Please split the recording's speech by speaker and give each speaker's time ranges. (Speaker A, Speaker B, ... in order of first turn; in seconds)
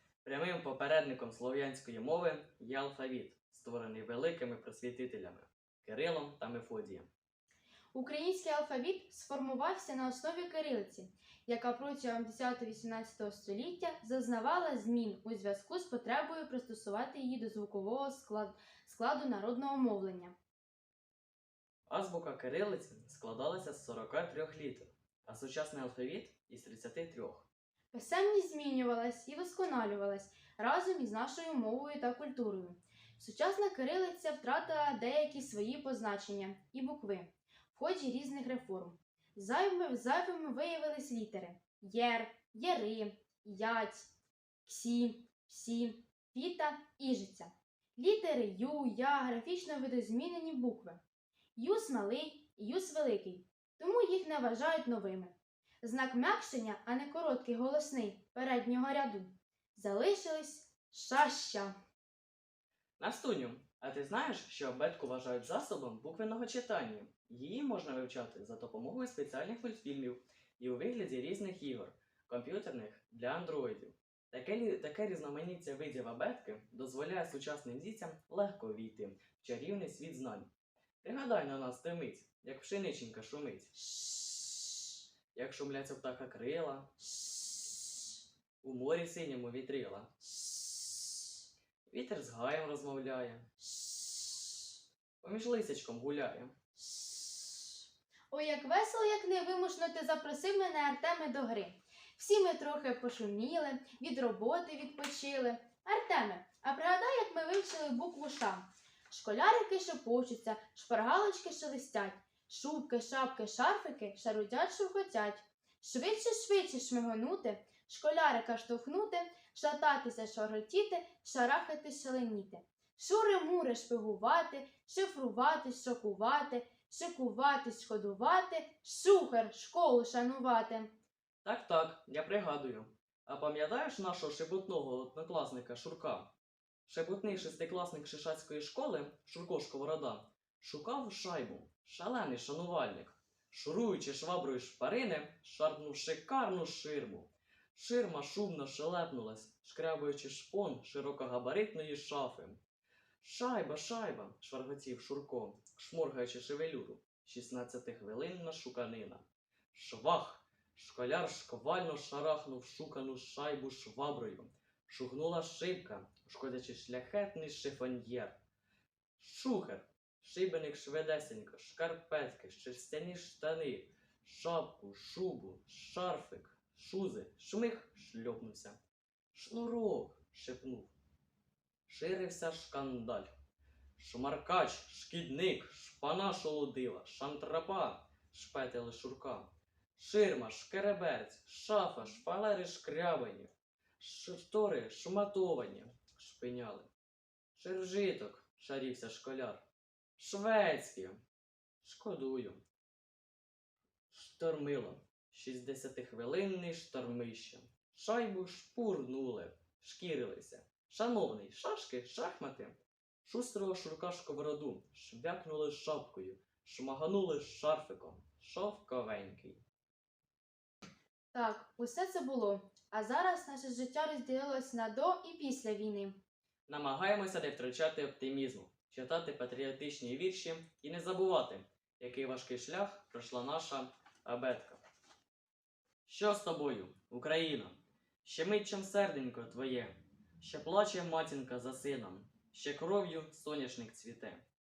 Speaker A: 0.2-7.1, 21.9-27.5, 63.0-80.5, 81.0-83.7, 85.3-86.9, 88.6-90.1, 91.9-93.5, 95.2-96.5, 131.4-136.3, 136.9-152.6, 153.2-168.4, 169.2-178.8, 179.3-180.9, 181.9-183.3, 184.0-196.9, 197.6-199.6, 200.2-201.2, 201.8-202.6, 204.1-219.6, 226.7-234.8, 236.1-244.4
Speaker B: 7.9-20.4, 27.9-44.1, 44.6-51.0, 51.6-61.7, 93.8-94.5, 96.9-97.7, 98.3-130.9, 221.3-226.2